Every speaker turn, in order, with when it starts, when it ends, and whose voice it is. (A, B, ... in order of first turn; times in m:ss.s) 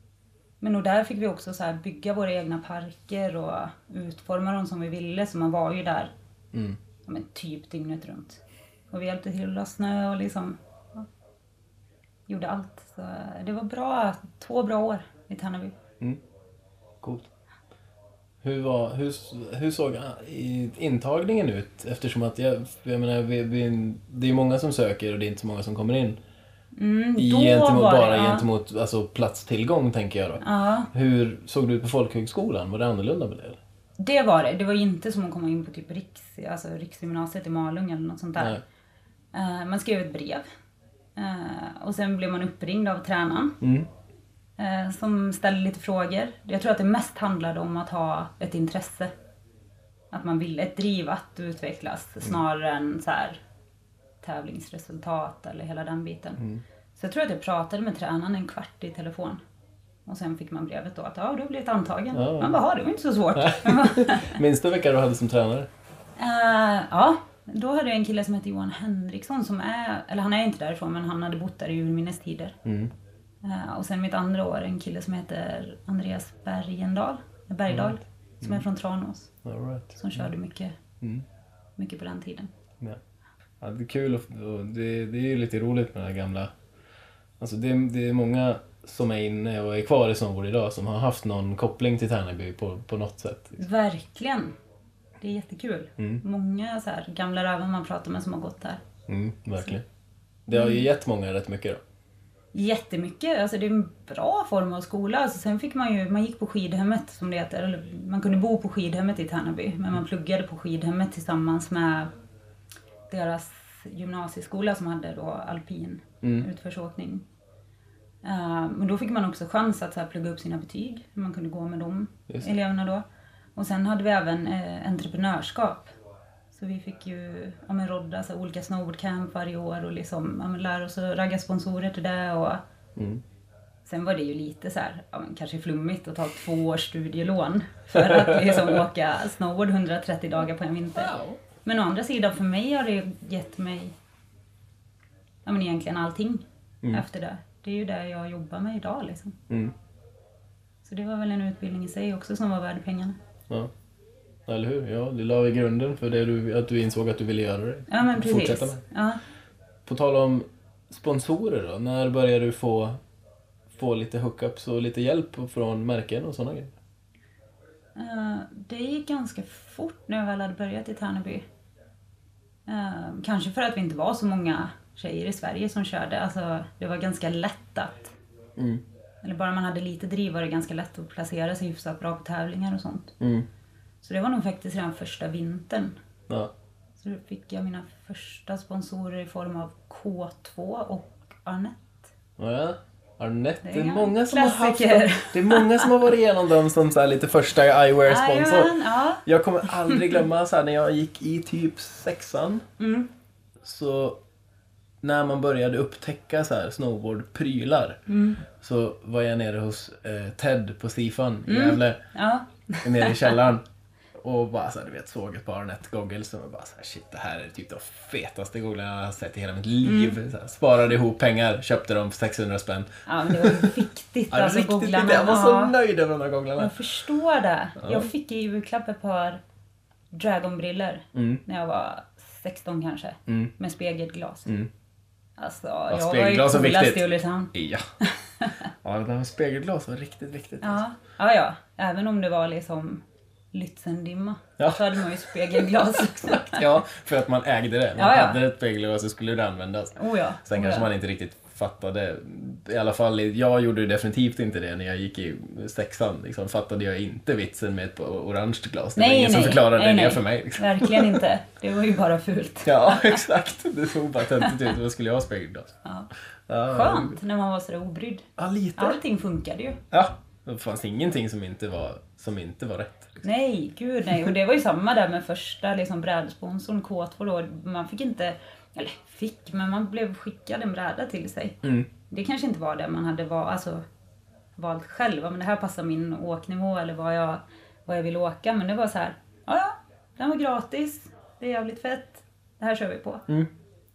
0:00.6-0:06.1 A
0:06.5-0:06.8 B
0:07.0-0:11.1 A
0:12.3-0:15.8 A
0:17.0-0:17.3 B
0:18.4-0:26.2 B
0:26.7-0:28.5 A
0:27.2-0:33.6 B
0:30.4-0:30.9 A
0:34.0-0:38.6 A
0:39.3-0:40.4 A
0:41.2-0:43.6 A
0:43.6-0:43.9 B
0:44.6-0:49.1 A
0:50.1-0:53.4 A
0:54.2-0:56.4 A
0:56.9-0:59.4 A
1:00.0-1:04.4 A
1:02.1-1:02.6 B
1:03.3-1:05.7 B
1:06.2-1:12.6 A
1:12.6-1:12.9 B
1:13.4-1:19.4 A
1:17.7-1:18.6 B
1:19.4-1:20.3 B
1:20.0-1:20.7 A
1:21.0-1:21.2 B
1:21.8-1:22.5 A
1:23.6-1:26.5 B
1:27.4-1:33.6 B
1:33.6-1:34.5 A
1:35.2-1:38.8 A
1:39.1-1:39.8 B
1:40.4-1:41.8 B
1:40.5-1:40.8 A
1:42.5-1:52.1 A
1:53.1-1:57.2 A
1:58.2-2:03.0 A
2:02.3-2:02.5 B
2:03.6-2:05.9 A
2:06.5-2:12.6 A
2:13.0-2:13.2 B
2:13.8-2:23.9 A
2:18.0-2:18.8 B
2:20.9-2:21.4 B
2:25.4-2:29.4 A
2:30.8-2:33.2 A
2:34.5-2:38.8 B
2:37.9-2:39.2 A
2:39.8-2:43.0 B
2:43.7-2:46.7 B
2:48.0-2:51.4 A
2:52.6-2:58.1 A
2:58.6-2:58.8 B
2:59.2-3:03.1 A
3:03.2-3:03.5 B
3:04.0-3:06.0 A
3:07.0-3:12.0 A
3:12.4-3:22.6 B
3:13.6-3:15.9 A
3:18.0-3:20.2 A
3:22.8-3:23.1 A
3:23.6-3:24.2 B
3:25.0-3:32.0 B
3:28.1-3:28.4 A
3:31.5-3:33.4 A
3:32.8-3:33.6 B
3:34.2-3:46.7 B
3:39.8-3:40.2 A
3:43.1-3:45.7 A
3:46.6-3:49.4 A
3:47.8-3:48.1 B
3:50.1-3:54.5 A
3:51.1-3:51.4 B
3:53.3-3:53.5 B
3:55.4-3:58.7 A
3:55.9-3:57.8 B
3:58.8-4:00.8 B
4:00.6-4:03.0 A
4:03.5-4:06.7 A
4:04.6-4:05.6 B
4:06.2-4:21.2 B
4:08.0-4:08.4 A
4:10.0-4:10.9 A
4:19.0-4:23.2 A
4:22.6-4:25.7 B
4:25.8-4:26.1 A
4:26.5-4:27.2 B
4:26.6-4:29.8 A
4:28.4-4:29.0 B
4:29.9-4:33.2 B
4:33.2-4:43.8 A
4:44.6-4:53.3 A